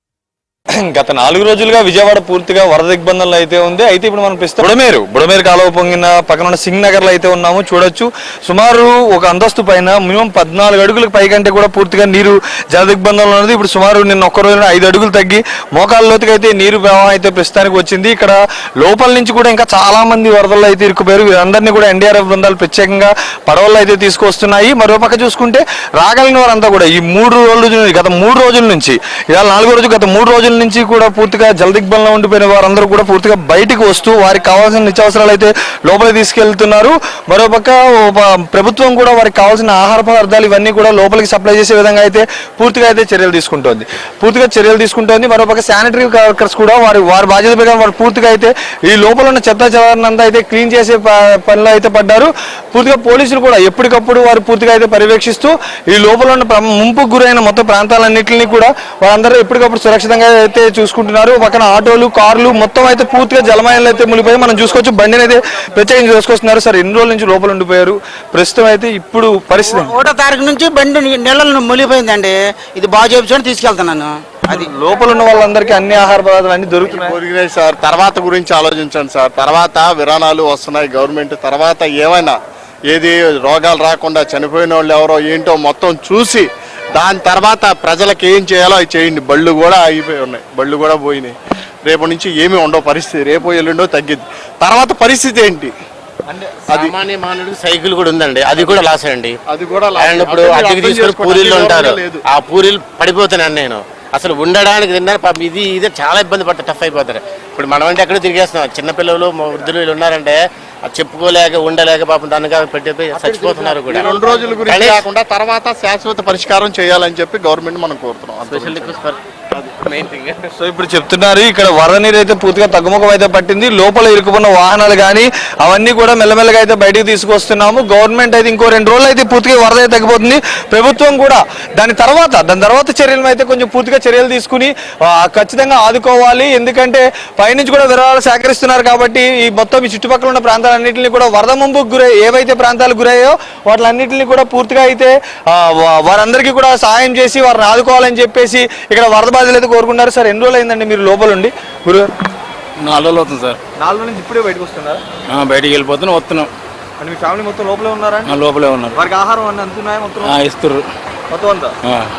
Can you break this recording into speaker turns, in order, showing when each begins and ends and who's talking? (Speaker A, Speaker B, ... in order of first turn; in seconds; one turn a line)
Speaker A: 0.9-70.0
Speaker B: 69.7-74.7
Speaker A: 74.5-77.2
Speaker C: 76.9-82.4
Speaker C: 82.9-95.7
Speaker C: 96.7-96.9
Speaker D: 96.7-99.3
Speaker C: 99.5-102.2
Speaker D: 100.0-114.1
Speaker C: 113.2-118.9
Speaker D: 114.7-115.1
Speaker D: 118.4-119.2
Speaker C: 119.5-119.8
Speaker D: 120.0-120.3
Speaker A: 120.6-152.1
Speaker E: 152.8-153.6
Speaker A: 153.8-155.0
Speaker E: 155.3-156.5
Speaker A: 157.0-158.3
Speaker E: 158.2-158.9
Speaker A: 158.9-160.3
Speaker E: 160.2-160.8
Speaker A: 161.3-161.7